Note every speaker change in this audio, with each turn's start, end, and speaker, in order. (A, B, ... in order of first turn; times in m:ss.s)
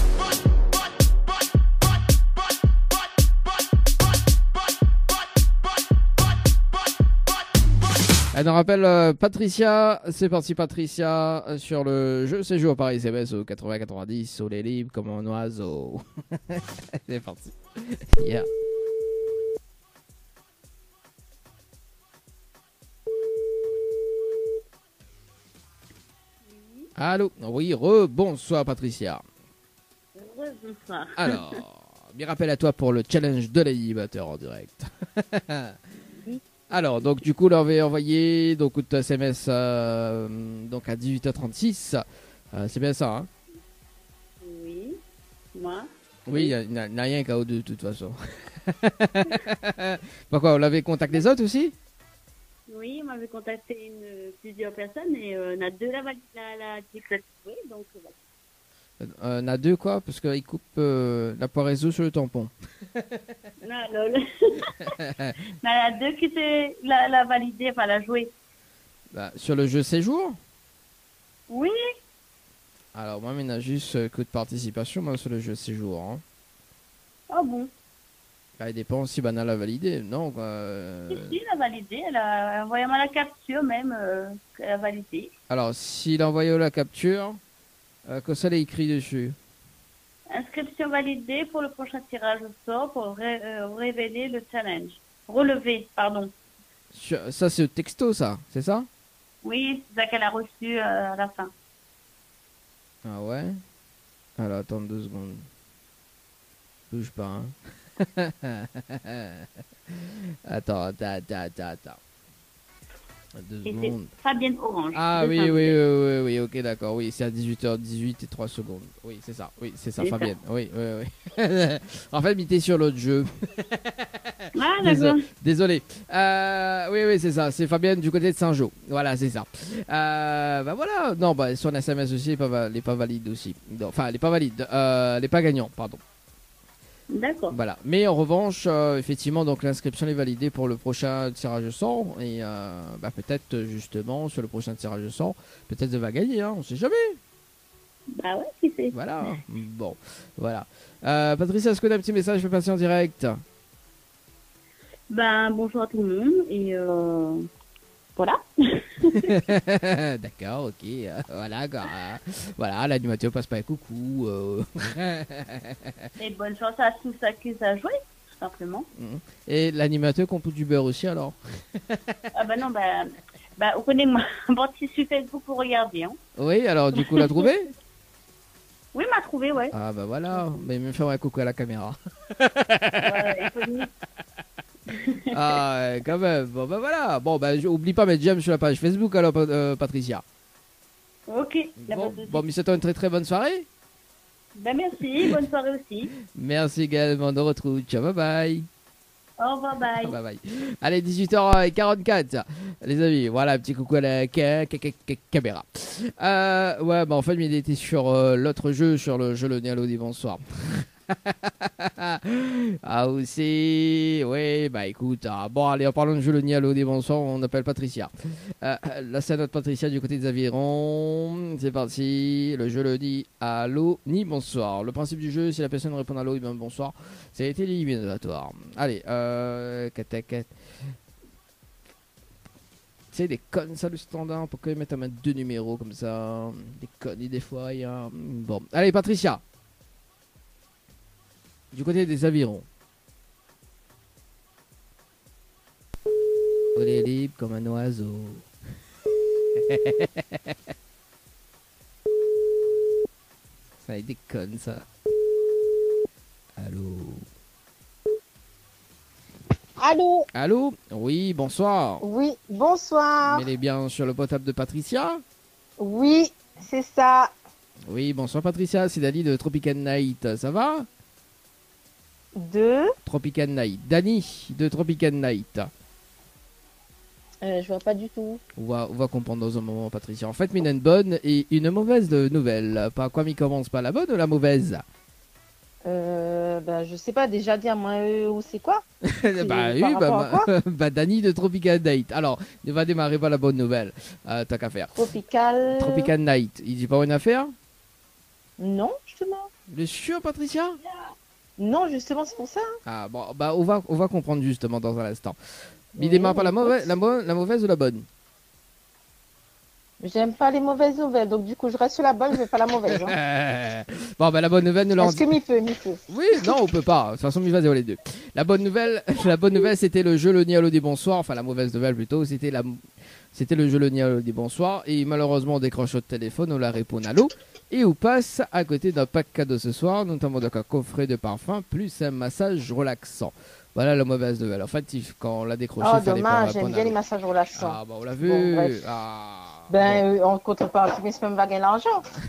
0:08.3-0:18.5 A
0:26.4-0:26.9 B
0:27.0-0:29.2 A
0:30.2-0:31.6 B
0:31.2-0:35.8 A
0:36.2-0:36.9 B
0:36.7-0:43.3 A
0:44.4-0:45.0 B
0:45.6-0:46.6 B
0:46.3-0:51.8 A
0:52.7-0:58.1 B
0:59.0-1:02.5 A
1:03.6-1:04.8 B
1:05.6-1:08.3 B
1:09.1-1:10.4 A
1:11.5-1:11.8 B
1:13.0-1:16.2 A
1:17.3-1:17.7 B
1:18.6-1:21.4 A
1:21.1-1:25.3 B
1:25.5-1:27.4 A
1:28.1-1:29.4 A
1:30.3-1:36.3 B
1:36.9-1:38.9 A
1:39.4-1:41.5 B
1:43.0-1:43.6 A
1:44.4-1:45.5 A
1:46.9-1:52.0 A
1:53.4-1:54.1 A
1:53.6-1:55.8 B
1:54.9-2:04.3 A
2:00.0-2:00.3 B
2:04.6-2:05.3 B
2:04.8-2:16.0 A
2:17.1-2:17.6 B
2:17.5-2:27.2 A
2:28.2-2:29.3 B
2:28.9-2:33.4 A
2:35.1-2:37.4 B
2:38.2-2:39.4 B
2:39.2-2:45.8 A
2:46.2-2:48.9 B
2:49.0-2:52.2 A
2:52.4-2:56.2 B
2:56.4-2:57.7 A
2:56.9-2:57.5 B
2:58.9-2:59.8 B
2:59.7-3:03.5 A
3:03.0-3:03.7 B
3:05.0-3:05.4 B
3:05.3-3:10.2 A
3:11.3-3:12.4 B
3:11.8-3:13.7 A
3:14.6-3:16.1 B
3:16.4-3:18.7 A
3:19.4-3:20.2 B
3:20.0-3:38.1 A
3:38.6-3:50.5 A
3:53.1-3:59.4 A
4:01.7-4:02.6 A
4:06.8-4:08.5 A
4:09.6-4:10.2 A
4:13.8-4:14.8 A
4:16.6-4:17.2 A
4:19.8-4:20.3 C
4:20.4-4:22.0 A
4:22.0-4:23.5 C
4:23.2-4:25.2 A
4:25.8-4:27.3 C
4:27.9-4:30.9 A
4:32.4-4:32.9 C
4:33.0-4:35.7 A
4:37.4-4:38.4 C
4:38.6-4:44.8 A
4:45.8-4:50.5 C
4:49.1-4:55.1 A
4:55.0-4:56.1 C
4:55.7-4:57.5 A
4:58.6-4:59.5 C
4:59.7-5:00.8 A
5:01.6-5:02.7 C
5:02.9-5:05.4 A
5:06.0-5:07.0 C
5:06.0-5:08.1 A
5:10.0-5:13.2 C
5:12.9-5:15.2 A
5:15.0-5:16.5 C
5:16.1-5:22.8 A
5:23.3-5:37.0 A
5:35.8-5:38.8 C
5:37.6-5:40.0 A
5:39.7-5:42.0 C